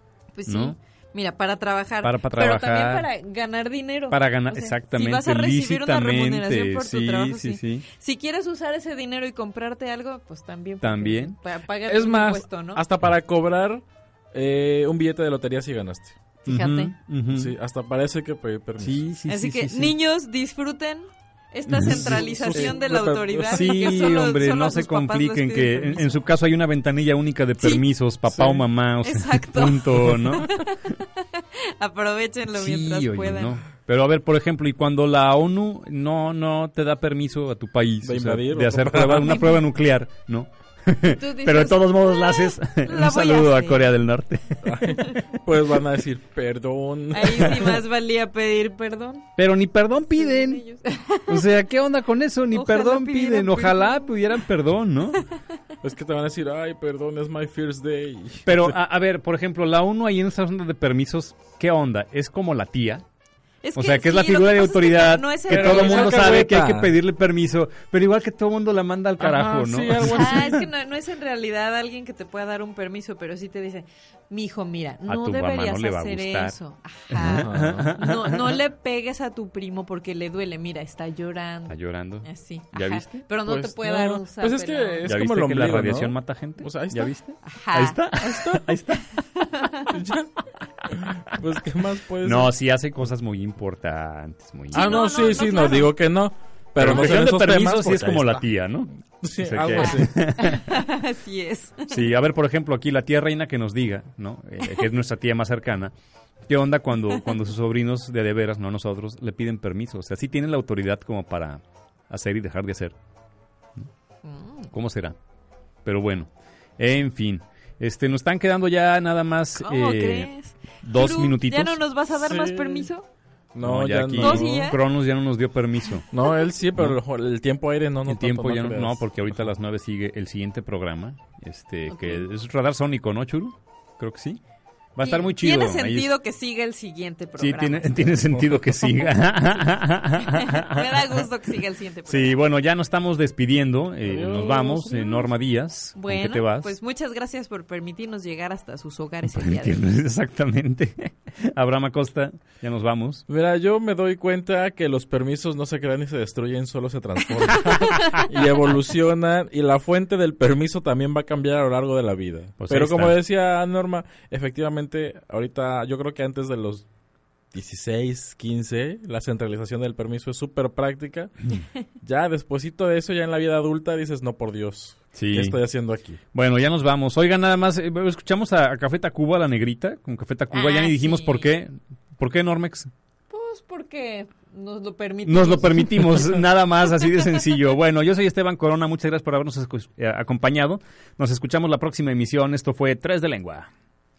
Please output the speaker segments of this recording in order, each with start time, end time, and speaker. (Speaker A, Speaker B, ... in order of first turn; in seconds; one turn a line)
Speaker A: 0.3-12.8
Speaker B: 0.5-0.8
Speaker B: 2.0-3.1
Speaker B: 4.1-7.8
Speaker B: 10.8-11.4
Speaker C: 11.9-16.2
Speaker A: 16.5-16.9
Speaker B: 16.5-17.6
Speaker C: 17.3-19.0
Speaker B: 18.8-19.9
Speaker A: 19.3-26.2
Speaker C: 21.7-24.1
Speaker B: 21.7-22.7
Speaker B: 23.5-30.6
Speaker C: 28.3-28.7
Speaker A: 29.0-33.6
Speaker B: 32.5-45.1
Speaker C: 38.0-39.4
Speaker A: 39.2-39.6
Speaker A: 41.1-43.9
Speaker C: 44.6-47.8
Speaker A: 47.1-49.3
Speaker B: 49.4-50.6
Speaker A: 50.1-51.5
Speaker B: 51.3-55.2
Speaker A: 52.5-54.5
Speaker C: 55.8-58.8
Speaker B: 58.5-63.0
Speaker A: 63.6-66.5
Speaker B: 63.8-70.7
Speaker C: 65.5-66.9
Speaker C: 69.2-70.5
Speaker A: 70.0-85.1
Speaker B: 75.1-76.6
Speaker B: 77.1-78.6
Speaker C: 77.2-77.9
Speaker B: 81.7-83.2
Speaker C: 83.5-87.2
Speaker B: 85.0-89.1
Speaker A: 87.4-88.6
Speaker C: 88.2-88.8
Speaker A: 89.1-90.0
Speaker C: 89.9-90.3
Speaker C: 90.9-92.5
Speaker B: 92.2-95.0
Speaker C: 94.7-98.5
Speaker A: 94.7-96.0
Speaker B: 96.8-100.7
Speaker C: 99.2-100.2
Speaker A: 99.8-102.1
Speaker B: 101.9-105.9
Speaker B: 106.5-113.0
Speaker A: 114.2-114.7
Speaker B: 114.7-115.2
Speaker B: 115.8-120.3
Speaker A: 119.6-123.1
Speaker B: 120.8-121.8
Speaker C: 122.1-122.9
Speaker C: 123.5-124.6
Speaker B: 123.6-126.1
Speaker A: 124.2-124.8
Speaker C: 126.1-129.4
Speaker B: 128.1-134.4
Speaker A: 131.9-132.3
Speaker B: 135.0-136.1
Speaker A: 135.0-142.4
Speaker B: 137.4-141.2
Speaker B: 142.1-146.7
Speaker C: 144.0-145.3
Speaker A: 146.0-149.8
Speaker B: 149.3-153.2
Speaker C: 153.3-166.9
Speaker B: 157.9-158.2
Speaker B: 162.6-163.2
Speaker C: 167.5-171.5
Speaker C: 172.0-176.2
Speaker B: 175.2-175.6
Speaker B: 176.3-182.9
Speaker A: 180.5-181.5
Speaker A: 183.3-186.4
Speaker B: 185.2-193.7
Speaker A: 187.1-187.4